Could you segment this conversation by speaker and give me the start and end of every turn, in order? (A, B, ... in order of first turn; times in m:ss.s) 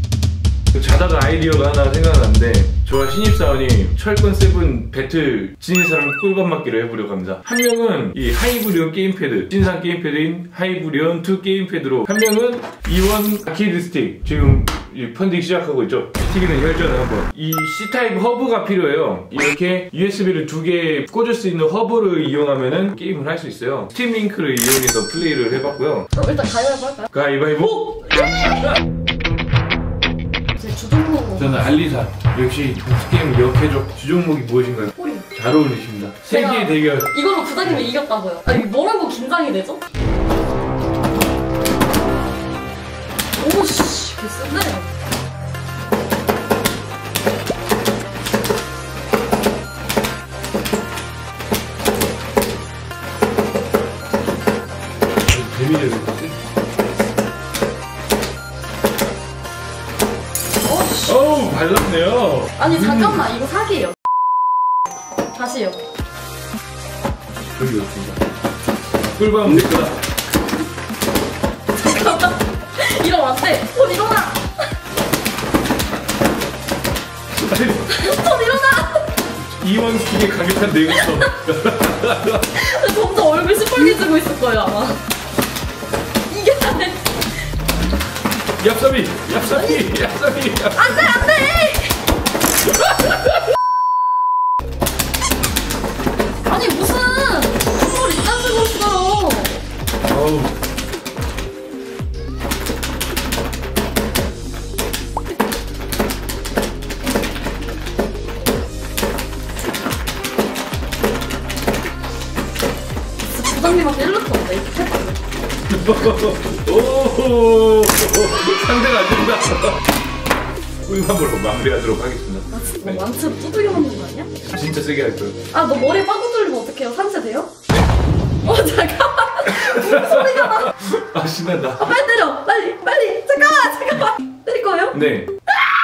0:00.7-0:26.1 A
0:26.1-0:27.1 B
0:27.1-0:28.0 A
0:27.6-0:28.7 B
0:30.5-0:31.7 B
0:31.4-0:37.1 A
0:35.0-0:35.3 B
0:36.3-0:39.8 B
0:43.4-0:44.9 B
0:55.3-0:56.4 A
1:00.6-1:01.2 B
1:01.0-1:03.3 A
1:02.6-1:04.0 B
1:05.3-1:05.8 B
1:07.6-1:08.2 A
1:09.2-1:10.0 A
1:11.8-1:14.4 B
1:17.3-1:18.1 A
1:17.9-1:19.1 B
1:19.5-1:22.5 A
1:22.5-1:25.0 B
1:26.3-1:27.2 B
1:28.6-1:31.2 A
1:29.4-1:29.9 B
1:30.7-1:32.0 B
1:36.4-1:39.6 B
1:40.1-1:40.5 A
1:53.2-1:55.2 B
1:55.7-1:59.8 A
2:00.8-2:03.0 A
2:02.5-2:04.3 B
2:04.4-2:05.4 A
2:05.5-2:07.5 B
2:08.4-2:10.8 B
2:09.4-2:11.9 A
2:11.8-2:15.0 B
2:14.9-2:15.3 A